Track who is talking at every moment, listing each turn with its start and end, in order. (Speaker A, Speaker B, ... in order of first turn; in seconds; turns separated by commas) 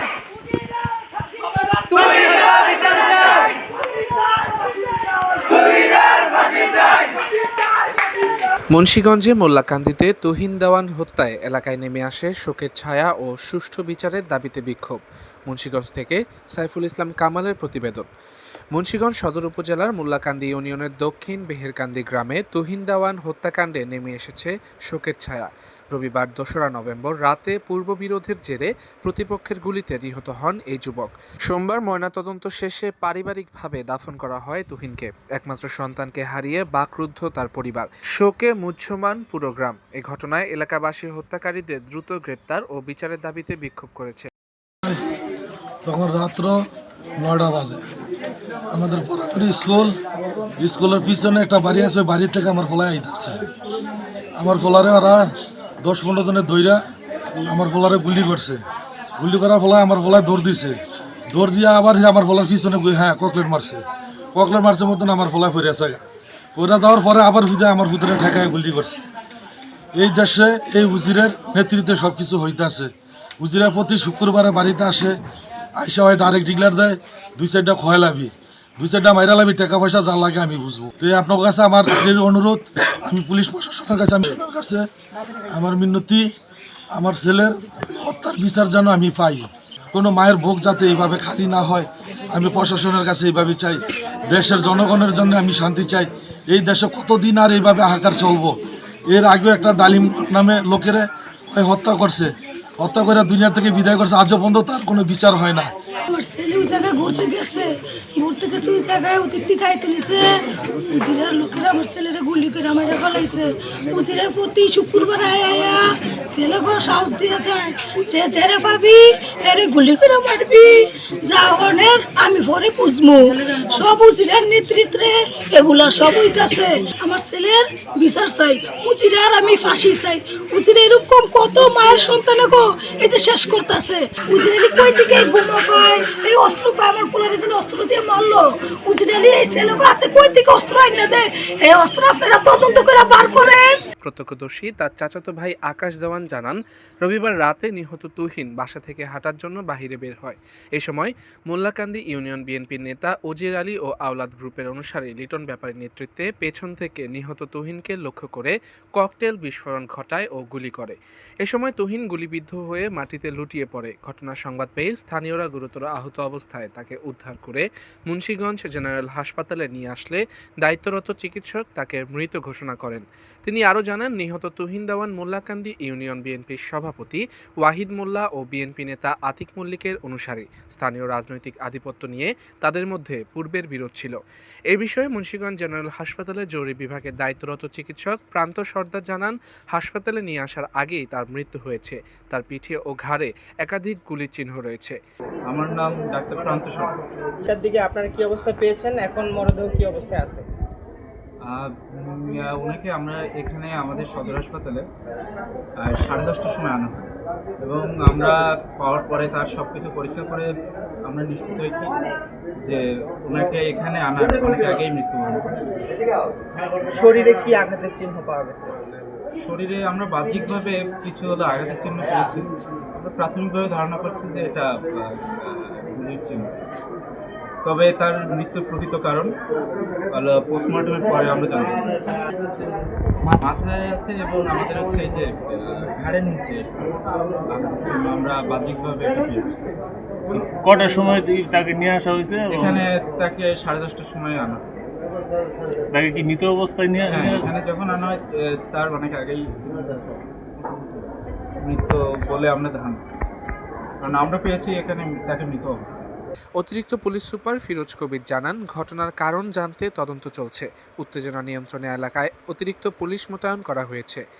Speaker A: 8.7-18.1, Speaker A: 18.7-44.3, Speaker B: 45.8-46.6, Speaker B: 47.2-47.8, Speaker B: 48.7-49.9, Speaker B: 50.6-53.4, Speaker B: 54.4-55.3, Speaker B: 55.8-56.8, Speaker B: 57.5-58.6, Speaker B: 59.2-60.8, Speaker B: 61.3-69.0, Speaker B: 69.9-75.1, Speaker B: 75.8-84.8, Speaker B: 85.5-86.3, Speaker B: 86.9-98.5, Speaker B: 99.1-105.7, Speaker C: 106.1-143.8, Speaker A: 144.0-184.2, Speaker A: 184.7-195.0, Speaker D: 195.5-196.9, Speaker E: 197.5-200.4, Speaker D: 197.5-199.2, Speaker D: 200.0-200.4, Speaker D: 201.5-204.8, Speaker D: 205.8-210.5, Speaker D: 211.1-211.9, Speaker D: 212.6-215.8, Speaker E: 216.9-218.7, Speaker D: 219.4-224.6, Speaker D: 225.4-226.4, Speaker D: 227.7-229.3, Speaker D: 230.1-231.8, Speaker D: 233.2-236.9, Speaker D: 237.5-239.6, Speaker F: 240.3-242.7, Speaker D: 242.5-244.6, Speaker F: 245.9-247.4, Speaker D: 247.1-251.1, Speaker D: 251.6-253.3, Speaker D: 254.0-256.1, Speaker A: 256.6-264.2